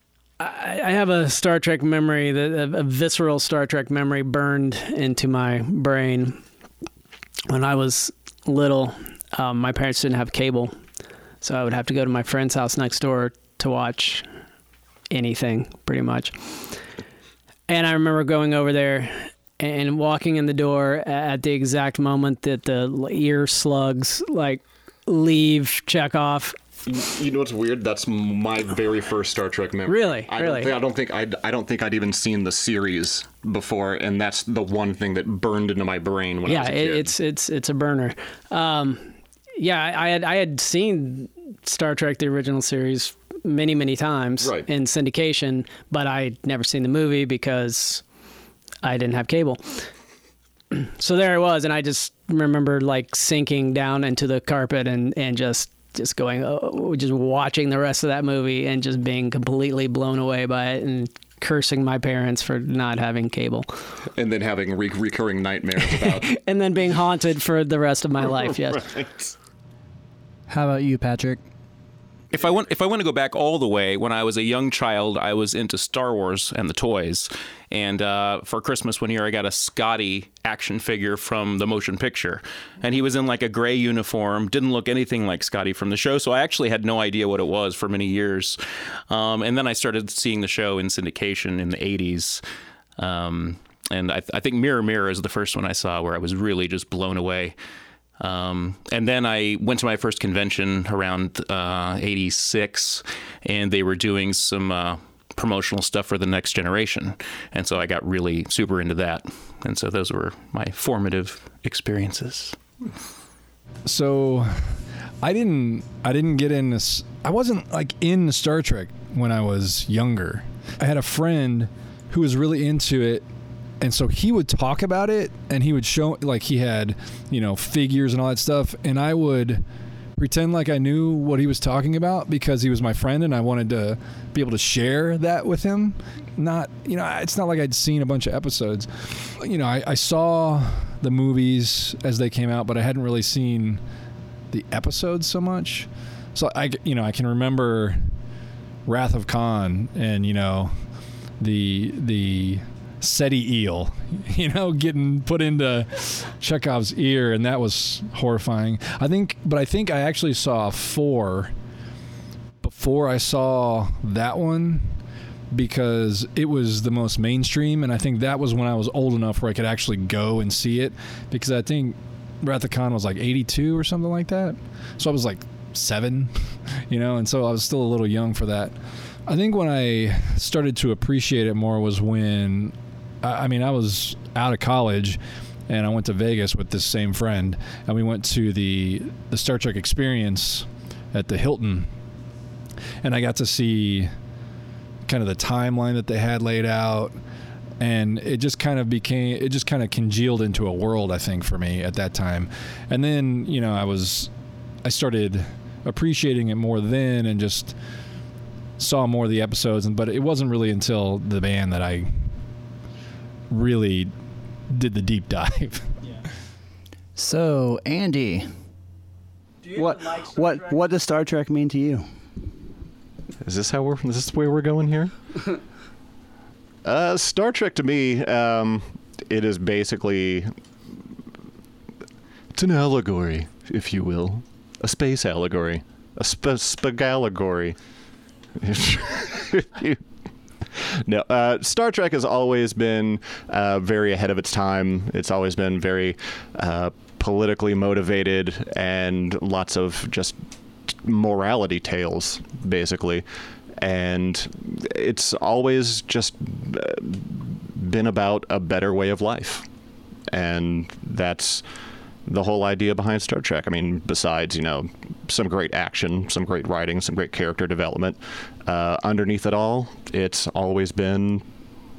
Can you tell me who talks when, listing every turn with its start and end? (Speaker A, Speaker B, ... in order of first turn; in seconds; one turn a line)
Speaker A: 0.4-6.4
Speaker A: 7.5-10.7
Speaker A: 11.4-14.3
Speaker A: 15.1-16.7
Speaker A: 17.7-26.6
Speaker B: 26.9-37.1
Speaker A: 29.9-30.7
Speaker A: 36.5-48.0
Speaker B: 44.4-44.7
Speaker A: 48.8-49.6
Speaker A: 50.7-63.7
Speaker B: 64.1-66.3
Speaker A: 66.0-68.8
Speaker B: 68.7-69.3
Speaker C: 70.5-71.4
Speaker D: 72.3-88.6
Speaker D: 89.1-92.4
Speaker D: 93.0-97.6
Speaker D: 98.2-112.6
Speaker E: 113.9-114.5
Speaker E: 115.2-123.2
Speaker E: 123.8-129.6
Speaker E: 130.2-143.8
Speaker E: 144.5-148.0
Speaker E: 148.9-150.7
Speaker E: 151.4-161.5
Speaker E: 162.6-164.9
Speaker E: 165.5-176.3
Speaker E: 176.9-178.8
Speaker E: 179.3-191.9
Speaker E: 193.0-194.1
Speaker E: 195.1-197.2
Speaker E: 197.8-204.3
Speaker E: 204.8-207.8
Speaker E: 208.8-212.1
Speaker E: 213.5-214.1
Speaker E: 214.7-215.8
Speaker C: 217.2-218.5
Speaker C: 219.7-222.0
Speaker B: 223.4-225.1
Speaker B: 226.8-230.5
Speaker B: 232.6-237.8
Speaker B: 238.6-240.0
Speaker B: 240.9-250.4
Speaker B: 251.0-253.3
Speaker B: 253.8-259.6
Speaker B: 260.3-261.6
Speaker B: 262.3-271.4